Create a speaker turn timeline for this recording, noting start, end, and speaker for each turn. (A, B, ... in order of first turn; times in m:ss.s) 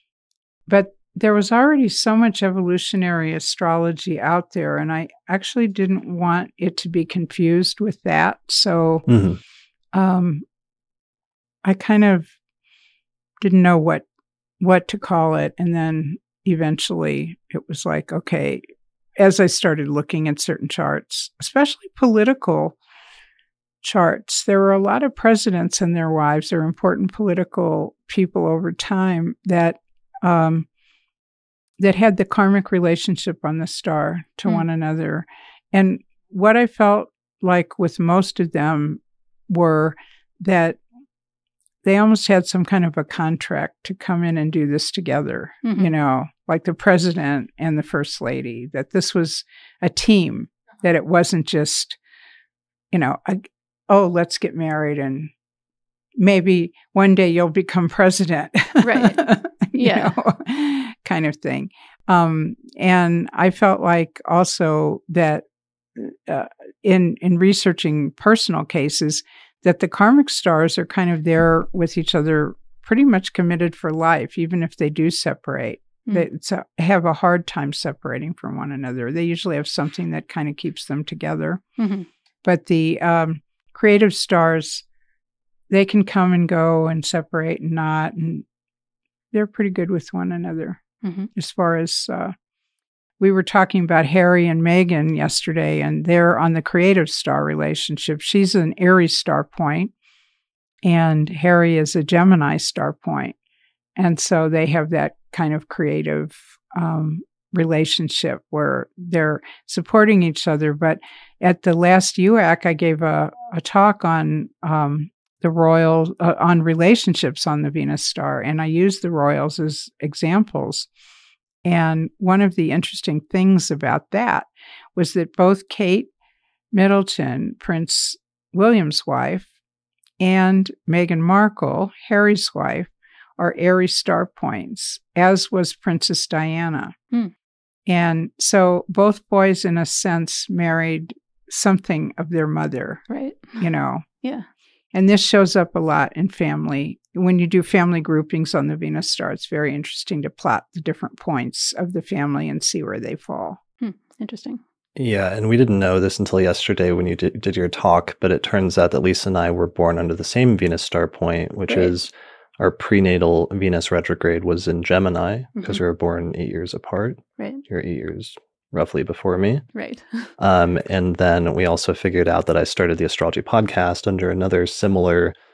0:00.7-0:09.1 A
0:09.1-0:09.4 B
0:09.9-0:10.4 A
0:11.6-0:12.3 A
0:13.4-0:14.0 A
0:14.6-0:18.6 A
0:19.2-0:22.8 A
0:23.8-0:30.7 A
0:31.8-0:40.8 A
0:41.8-0:52.0 A
0:45.6-0:45.9 C
0:52.9-0:55.3 A
0:56.2-1:21.6 A
0:58.8-0:59.2 C
0:59.8-1:00.1 C
1:21.8-1:22.1 C
1:22.4-1:24.8 A
1:25.7-1:28.4 A
1:29.3-1:30.8 A
1:31.0-1:31.3 C
1:31.3-1:32.3 A
1:33.2-1:39.9 A
1:40.8-1:43.4 A
1:44.0-2:00.9 A
2:01.6-2:06.1 A
2:06.7-2:09.5 A
2:10.2-2:16.9 A
2:17.9-2:23.0 A
2:23.1-2:23.6 C
2:23.6-2:24.0 A
2:24.9-2:33.6 A
2:33.8-2:34.6 C
2:35.0-2:49.6 B
2:45.6-2:45.8 C
2:49.7-2:50.3 C
2:50.4-2:55.3 B